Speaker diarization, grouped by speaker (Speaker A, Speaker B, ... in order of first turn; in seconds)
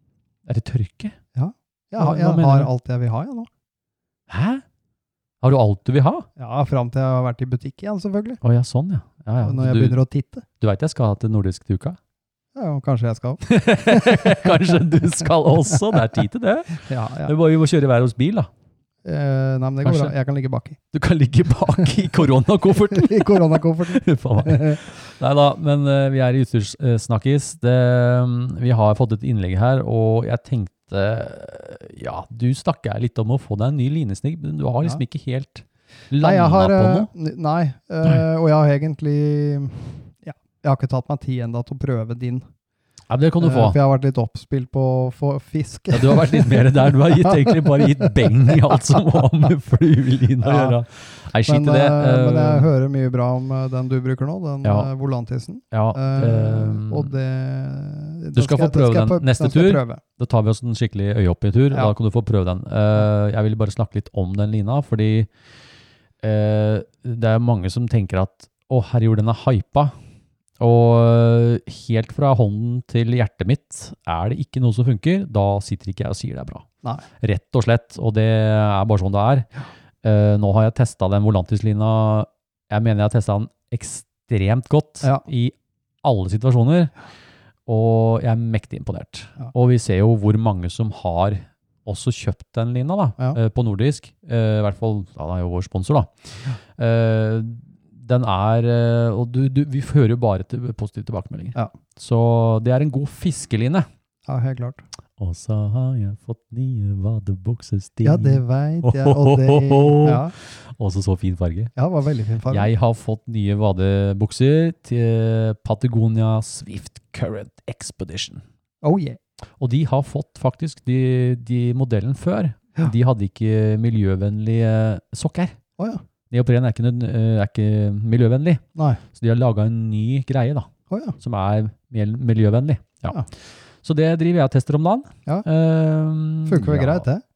Speaker A: 0.5-1.2, 2.0-2.7, 4.3-4.6, 5.4-6.3, 8.4-10.0, 10.6-12.0, 13.4-18.5, 19.8-20.1, 20.9-37.1, 43.1-43.8, 45.9-52.7, 54.6-54.9, 55.7-57.1, 58.4-65.3, 66.2-70.0, 70.6-76.7, 77.2-79.5, 80.0-86.9, 87.7-96.1, 96.8-103.9, 105.2-111.7, 112.5-118.4, 119.6-125.6, 126.3-133.2, 133.8-137.1
Speaker B: 1.4-3.5, 6.4-8.4, 9.4-10.4, 12.6-14.6, 16.8-17.3, 19.0-20.8, 22.9-24.8, 36.2-42.5, 43.4-49.0, 50.4-50.8, 51.5-60.0, 104.3-104.8, 108.0-110.3, 111.8-112.7, 118.8-119.2, 125.8-126.0, 128.8-129.0, 130.9-131.2, 136.5-137.2